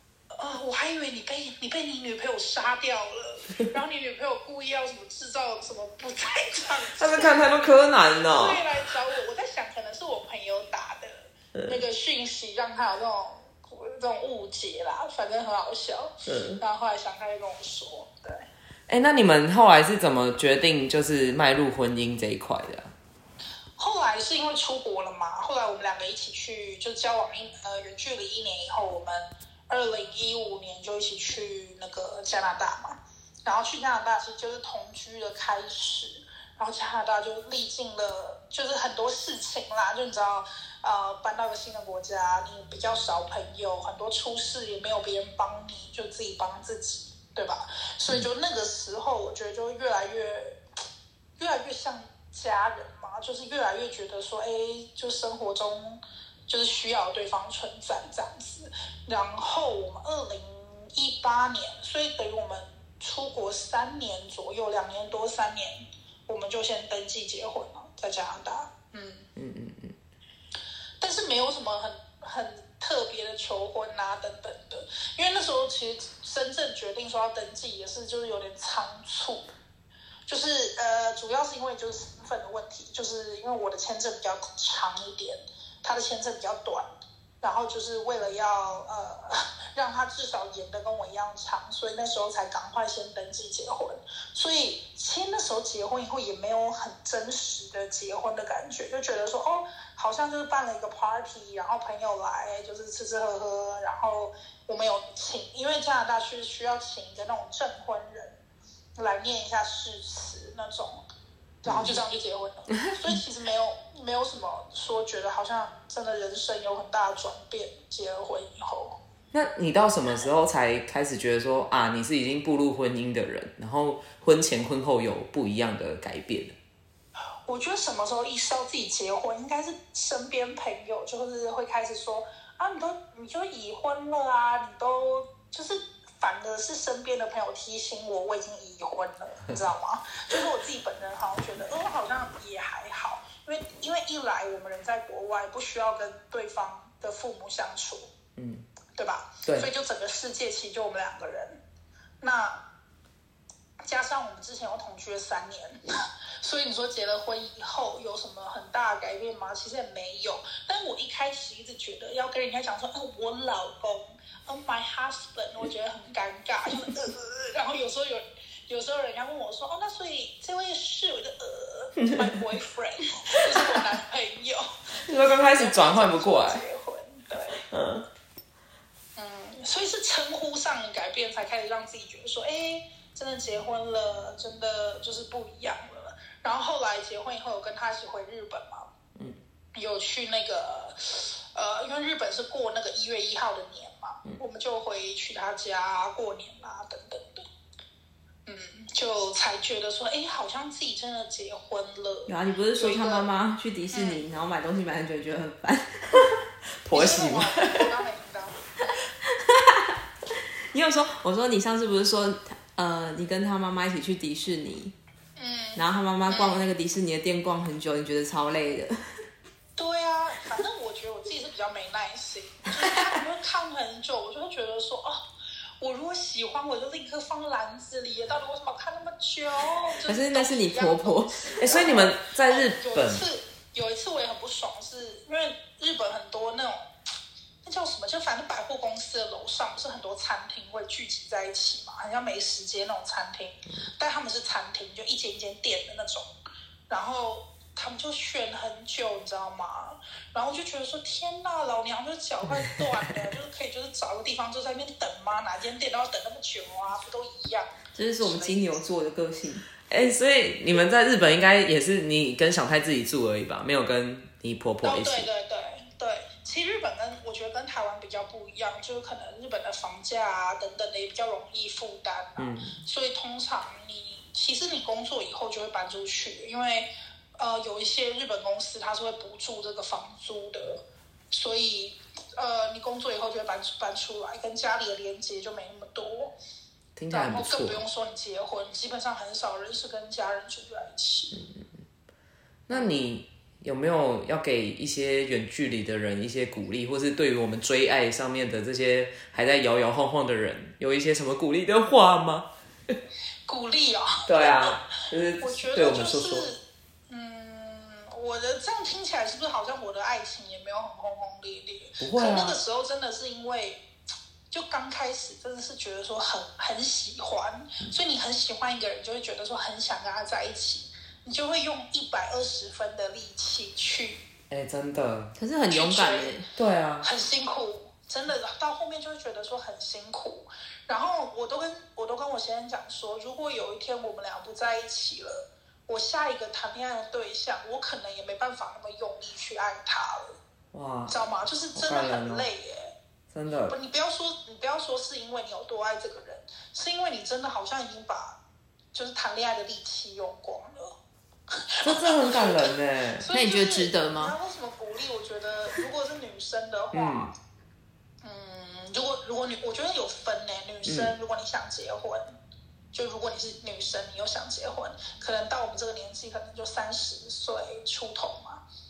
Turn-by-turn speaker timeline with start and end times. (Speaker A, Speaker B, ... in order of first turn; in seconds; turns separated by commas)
Speaker A: 0.3-7.7, Speaker B: 6.9-8.7, Speaker A: 8.2-18.4, Speaker B: 16.2-16.6, Speaker B: 18.9-22.9, Speaker A: 23.8-50.6, Speaker A: 51.4-69.3, Speaker B: 69.4-70.0, Speaker A: 71.0-79.5, Speaker A: 80.3-86.9, Speaker A: 87.4-108.4, Speaker A: 109.0-111.0, Speaker A: 111.6-119.0, Speaker B: 111.7-112.0, Speaker B: 119.3-126.5, Speaker A: 127.5-148.1, Speaker B: 148.4-148.7, Speaker A: 149.0-151.6, Speaker A: 152.2-152.6, Speaker A: 153.8-177.6, Speaker B: 172.0-172.4, Speaker B: 174.9-176.6, Speaker B: 177.7-178.1, Speaker A: 179.2-188.9, Speaker A: 189.8-197.5, Speaker A: 198.5-203.3, Speaker C: 202.3-206.4, Speaker A: 203.9-204.2, Speaker B: 206.8-207.8, Speaker A: 206.9-208.6, Speaker C: 209.3-209.9, Speaker C: 210.7-214.9, Speaker A: 215.4-216.7, Speaker C: 215.8-219.0, Speaker A: 219.8-225.2, Speaker C: 222.8-223.1, Speaker A: 225.8-236.9, Speaker C: 230.1-231.9, Speaker B: 231.6-233.2, Speaker A: 237.6-246.3, Speaker A: 246.9-258.6, Speaker B: 252.5-252.9, Speaker C: 257.9-259.7, Speaker B: 259.9-265.3, Speaker A: 264.8-286.3, Speaker B: 272.4-272.8, Speaker B: 287.0-287.8, Speaker A: 287.1-291.4, Speaker B: 291.4-291.6, Speaker B: 292.7-302.5, Speaker A: 303.5-304.8, Speaker B: 304.3-306.5, Speaker A: 305.4-313.8, Speaker B: 312.0-312.6, Speaker A: 314.5-324.2, Speaker B: 324.5-325.3, Speaker C: 325.4-326.5, Speaker A: 325.7-326.3, Speaker B: 326.6-327.1, Speaker A: 327.0-340.4, Speaker B: 340.7-341.2, Speaker A: 341.1-342.9, Speaker B: 341.8-342.5, Speaker B: 343.3-343.8, Speaker A: 343.7-348.4, Speaker A: 348.9-350.9, Speaker A: 351.5-357.4, Speaker B: 351.8-353.3, Speaker C: 353.3-354.4, Speaker B: 356.9-357.3, Speaker A: 358.2-362.3, Speaker B: 360.9-361.1, Speaker A: 362.9-368.6